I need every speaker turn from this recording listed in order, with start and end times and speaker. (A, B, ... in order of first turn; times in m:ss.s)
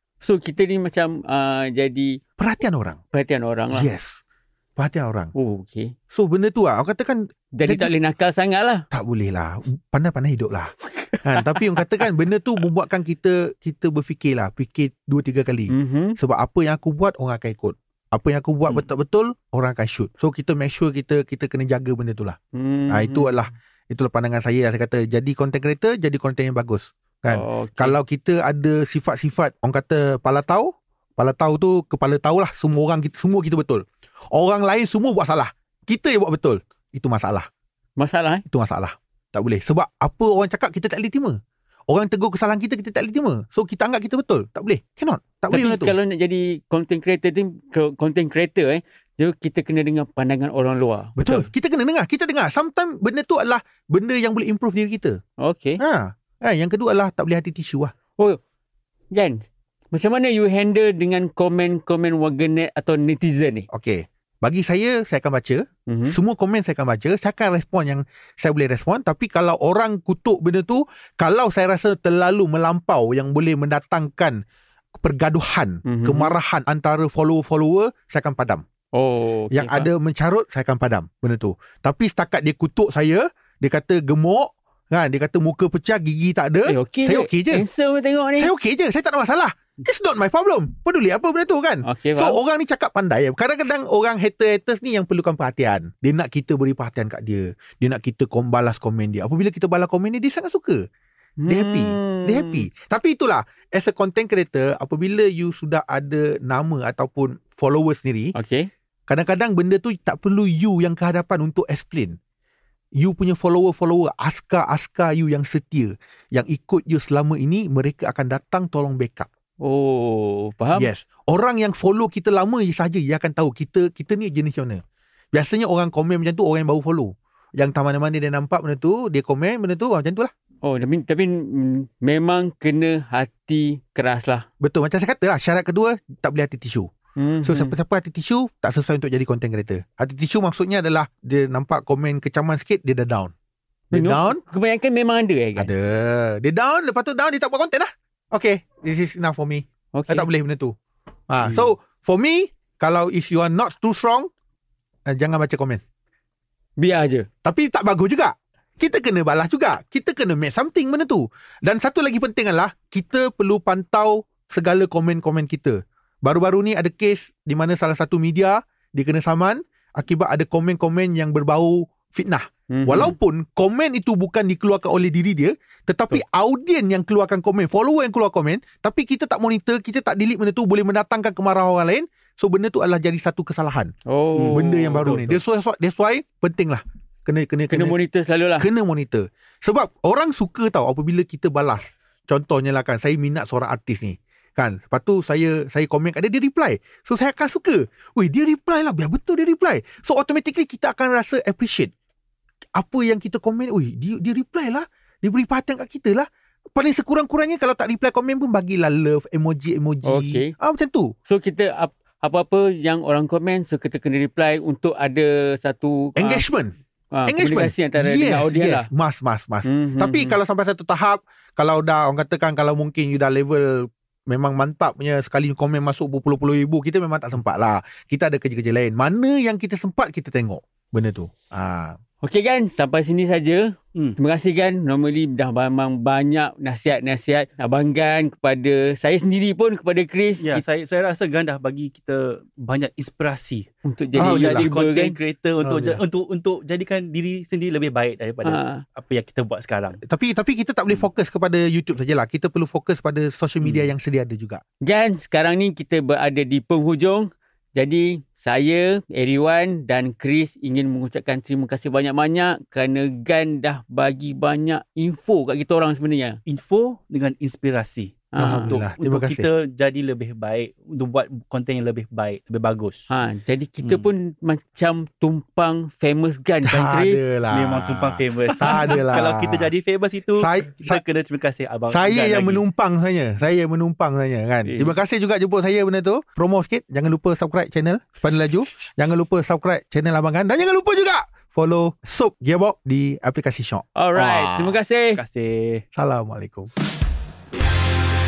0:00.2-0:02.2 A
0:02.4-0:03.0 B
0:03.1-0:03.9 A
0:03.7-0:04.2 B
0:04.8-0:05.3 B
0:05.4-0:05.9 A
0:06.1-0:07.9 B
0:07.6-0:08.8 A
0:08.9-0:22.4 B
0:10.9-0:12.0 A
0:15.7-0:16.2 A
0:22.5-0:23.4 A
0:22.9-0:37.5 B
0:27.3-0:27.9 A
0:38.0-0:38.4 A
0:38.5-0:41.4 B
0:41.9-0:45.9 B
0:45.5-0:51.5 A
0:51.2-0:55.2 B
0:55.4-0:55.8 A
0:55.8-0:57.9 B
0:59.1-1:03.7 A
1:03.7-1:14.4 B
1:05.9-1:06.2 A
1:14.9-1:18.6 B
1:15.8-1:16.4 A
1:18.9-1:19.9 A
1:19.5-1:27.6 B
1:26.6-1:28.5 A
1:28.4-1:40.8 B
1:31.8-1:32.4 A
1:41.4-1:42.6 A
1:41.5-1:48.3 B
1:48.3-1:48.7 A
1:49.1-1:52.2 B
1:53.0-1:59.3 B
1:59.6-2:00.9 A
2:00.7-2:04.8 B
2:05.3-2:10.3 B
2:10.6-2:14.4 A
2:14.6-2:16.9 B
2:17.2-2:17.8 A
2:17.4-2:23.3 B
2:23.9-2:24.4 B
2:23.9-2:25.7 A
2:25.6-2:30.8 B
2:29.9-2:30.3 A
2:31.3-2:34.3 B
2:35.1-2:35.8 B
2:36.8-2:37.3 A
2:37.4-3:03.9 B
2:52.7-2:53.1 A
3:04.1-3:05.2 A
3:04.4-3:05.4 C
3:04.5-3:07.9 B
3:07.7-3:08.7 A
3:08.6-3:21.9 B
3:22.7-3:31.1 B
3:30.0-3:30.5 A
3:31.2-3:36.4 A
3:36.2-3:36.7 B
3:37.1-3:38.9 A
3:37.3-3:52.0 B
3:39.6-3:40.4 A
3:52.2-4:00.6 A
4:00.4-4:03.6 C
4:03.8-4:05.2 A
4:04.2-4:04.7 B
4:04.2-4:10.0 C
4:05.6-4:06.0 B
4:08.4-4:08.8 A
4:10.0-4:14.6 B
4:13.6-4:13.9 C
4:14.8-4:26.4 A
4:26.4-4:33.1 C
4:28.3-4:28.8 A
4:28.4-4:29.5 B
4:33.1-4:37.2 A
4:33.8-4:34.1 C
4:36.6-4:39.7 B
4:37.5-4:42.6 C
4:40.4-4:41.0 B
4:41.9-4:54.8 B
4:44.6-4:44.9 A
4:54.0-4:55.2 A
4:55.2-4:55.8 C
4:55.9-4:56.7 B